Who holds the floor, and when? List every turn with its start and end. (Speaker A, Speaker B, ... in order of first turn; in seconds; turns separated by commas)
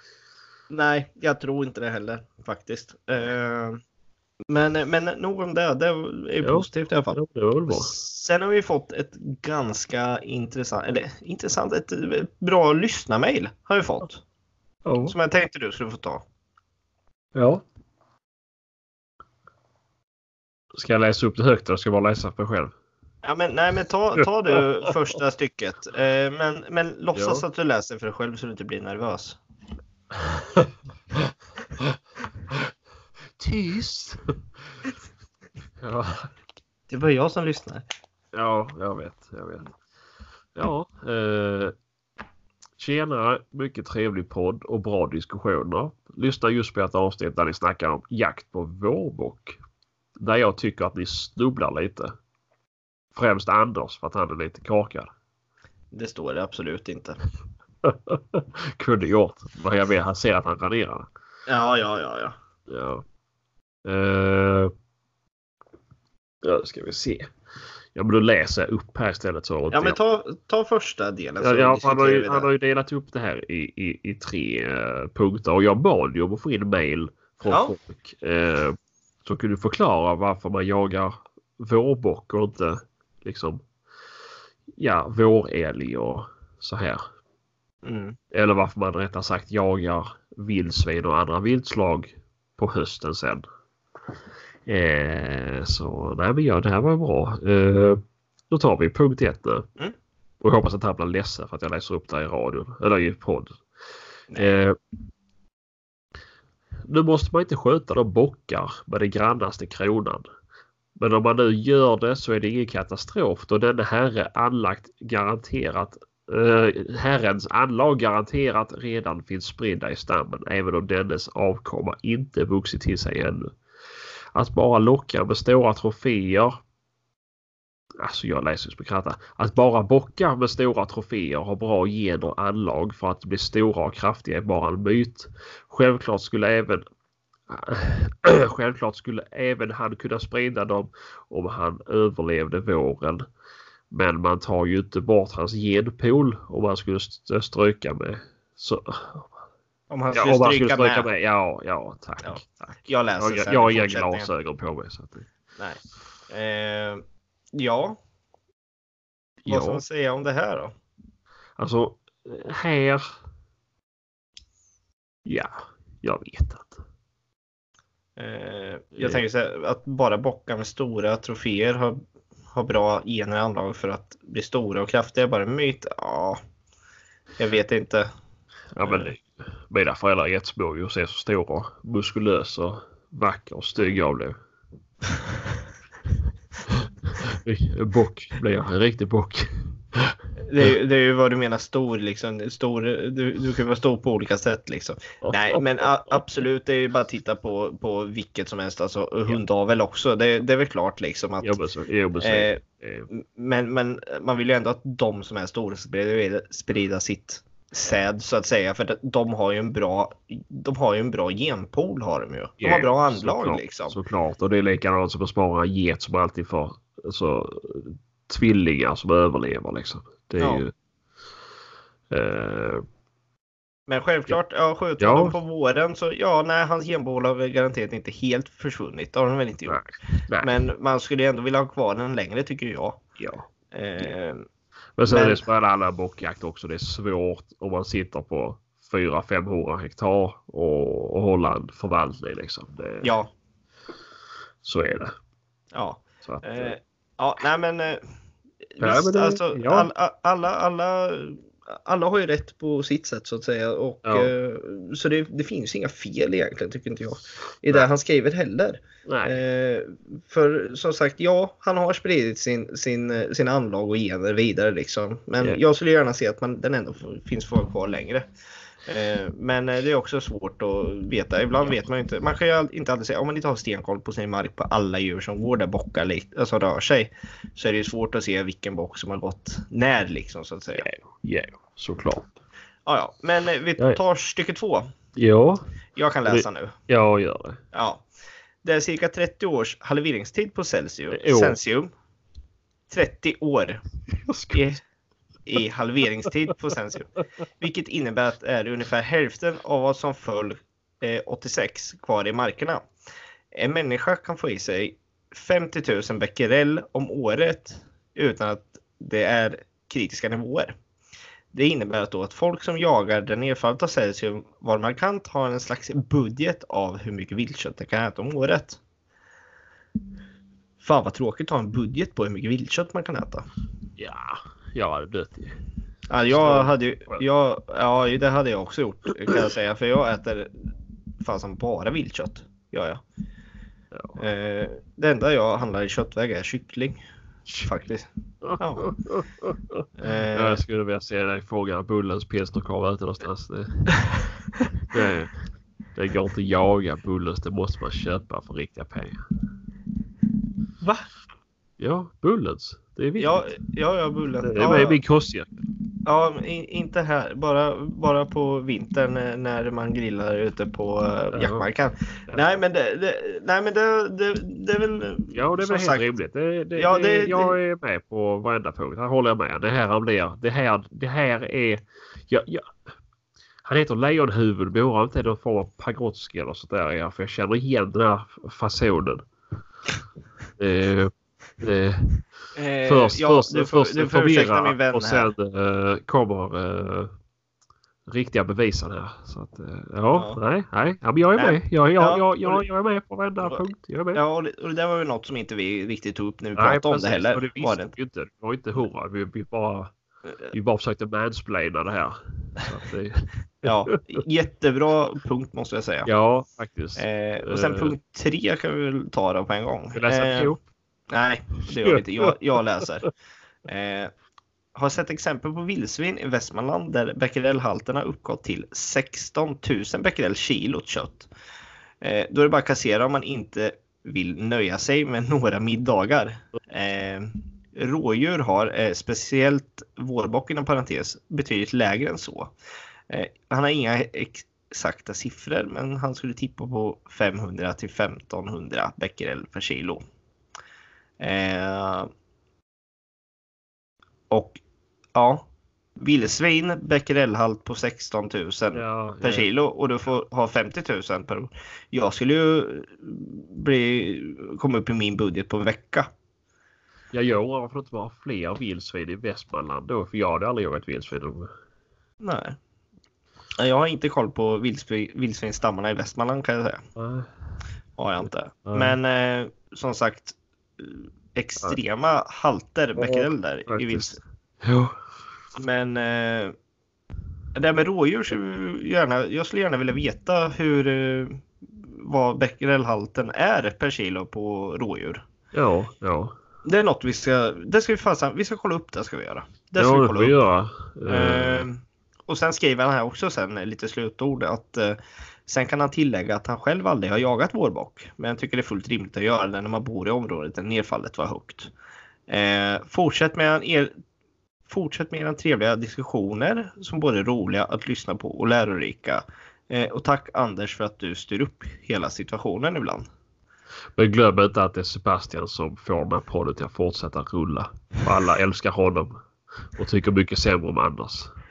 Speaker A: 0.7-3.8, Speaker A: 4.5-14.2, Speaker B: 6.4-7.9, Speaker B: 14.8-15.1, Speaker A: 15.1-16.2, Speaker B: 17.3-17.6, Speaker B: 20.7-22.7, Speaker A: 23.2-29.4, Speaker B: 27.1-27.4, Speaker B: 30.2-30.7, Speaker B: 31.2-32.0, Speaker B: 33.4-34.2, Speaker B: 35.8-36.3, Speaker A: 36.9-37.8, Speaker B: 38.3-39.7, Speaker B: 40.5-41.7, Speaker B: 42.8-49.6, Speaker B: 50.2-52.1, Speaker B: 53.1-55.1, Speaker A: 55.9-57.2, Speaker B: 57.8-61.1, Speaker A: 61.5-62.3, Speaker B: 62.7-63.0, Speaker B: 63.8-64.7, Speaker B: 66.4-67.3, Speaker B: 67.9-70.0, Speaker A: 69.7-72.5, Speaker B: 71.4-83.6, Speaker A: 77.5-77.7, Speaker B: 84.8-87.0, Speaker A: 87.8-88.2, Speaker B: 88.3-93.4, Speaker B: 94.7-99.7, Speaker B: 100.4-103.6, Speaker A: 104.3-104.6, Speaker B: 104.3-104.8, Speaker B: 106.9-110.3, Speaker B: 111.0-123.5, Speaker B: 124.3-126.6, Speaker B: 128.0-136.8, Speaker B: 137.5-143.2, Speaker B: 143.9-149.3, Speaker A: 149.9-151.1, Speaker B: 150.1-152.7, Speaker A: 152.2-154.3, Speaker B: 153.2-155.3, Speaker A: 155.6-157.0, Speaker A: 157.5-158.0, Speaker B: 159.4-159.8, Speaker A: 159.5-160.7, Speaker B: 161.6-163.1, Speaker B: 165.2-166.8, Speaker A: 168.2-172.0, Speaker B: 169.0-169.2, Speaker A: 172.5-176.4, Speaker A: 177.4-178.1, Speaker B: 178.7-184.3, Speaker A: 178.8-179.1, Speaker B: 186.7-190.6, Speaker A: 190.4-201.6, Speaker B: 195.2-196.2, Speaker B: 201.4-203.1, Speaker A: 202.2-214.0, Speaker B: 212.6-220.7, Speaker A: 220.4-220.6, Speaker B: 222.1-222.8, Speaker A: 223.9-229.8, Speaker B: 225.0-225.3, Speaker B: 229.7-230.6, Speaker A: 230.4-233.0, Speaker B: 233.2-233.4, Speaker A: 233.7-234.4, Speaker B: 235.0-243.1, Speaker A: 235.1-235.4, Speaker A: 243.0-243.3, Speaker B: 244.6-245.1, Speaker A: 245.7-248.0, Speaker B: 246.2-246.7, Speaker A: 248.8-268.2, Speaker B: 248.8-249.9, Speaker B: 254.0-254.3, Speaker B: 259.1-259.4, Speaker A: 268.9-280.9, Speaker B: 280.8-282.3, Speaker A: 282.9-284.9, Speaker B: 285.1-285.6, Speaker A: 285.9-286.7, Speaker B: 286.3-287.6, Speaker A: 287.7-288.0, Speaker A: 288.6-291.9, Speaker B: 291.1-291.6, Speaker A: 292.9-293.8, Speaker B: 294.1-294.7, Speaker A: 294.5-294.8, Speaker A: 295.4-302.8, Speaker A: 303.5-310.7, Speaker A: 311.5-318.8, Speaker A: 320.8-323.4, Speaker B: 324.0-325.6, Speaker A: 326.1-330.7, Speaker B: 326.3-327.2, Speaker A: 331.2-333.0, Speaker B: 333.9-334.2, Speaker A: 334.1-337.0, Speaker A: 337.6-338.9, Speaker B: 338.4-343.9, Speaker A: 340.0-340.6, Speaker B: 344.9-345.4, Speaker B: 345.9-349.2, Speaker B: 351.8-353.5, Speaker A: 353.2-355.0, Speaker B: 354.4-355.5, Speaker A: 356.0-366.1, Speaker B: 361.3-361.7, Speaker B: 365.3-372.7, Speaker A: 366.8-367.6, Speaker B: 373.6-379.2, Speaker B: 380.6-382.2, Speaker A: 382.6-385.3, Speaker B: 382.9-387.1, Speaker B: 388.1-394.2, Speaker A: 390.1-390.4, Speaker A: 391.4-392.6, Speaker A: 394.1-397.9, Speaker B: 396.6-399.9, Speaker B: 400.5-403.9, Speaker A: 403.6-406.1, Speaker B: 406.1-407.9, Speaker A: 407.0-410.6, Speaker B: 409.9-410.6, Speaker A: 411.1-413.1, Speaker A: 413.6-414.1, Speaker A: 414.7-421.3, Speaker A: 422.0-432.5, Speaker A: 433.1-440.0, Speaker A: 441.2-442.1, Speaker A: 444.3-444.6, Speaker A: 445.1-445.5, Speaker A: 446.0-456.1, Speaker B: 448.7-449.5, Speaker B: 457.1-461.5, Speaker A: 462.2-462.6, Speaker A: 463.6-466.8, Speaker B: 466.9-467.3, Speaker A: 468.0-474.2, Speaker B: 468.7-469.0, Speaker B: 473.0-475.0, Speaker A: 475.6-476.5, Speaker A: 477.5-485.2, Speaker B: 485.5-486.3, Speaker A: 486.6-490.3, Speaker B: 489.8-491.6, Speaker A: 491.1-501.7, Speaker A: 502.3-503.9, Speaker A: 504.7-513.1, Speaker B: 514.0-519.1, Speaker B: 519.8-521.3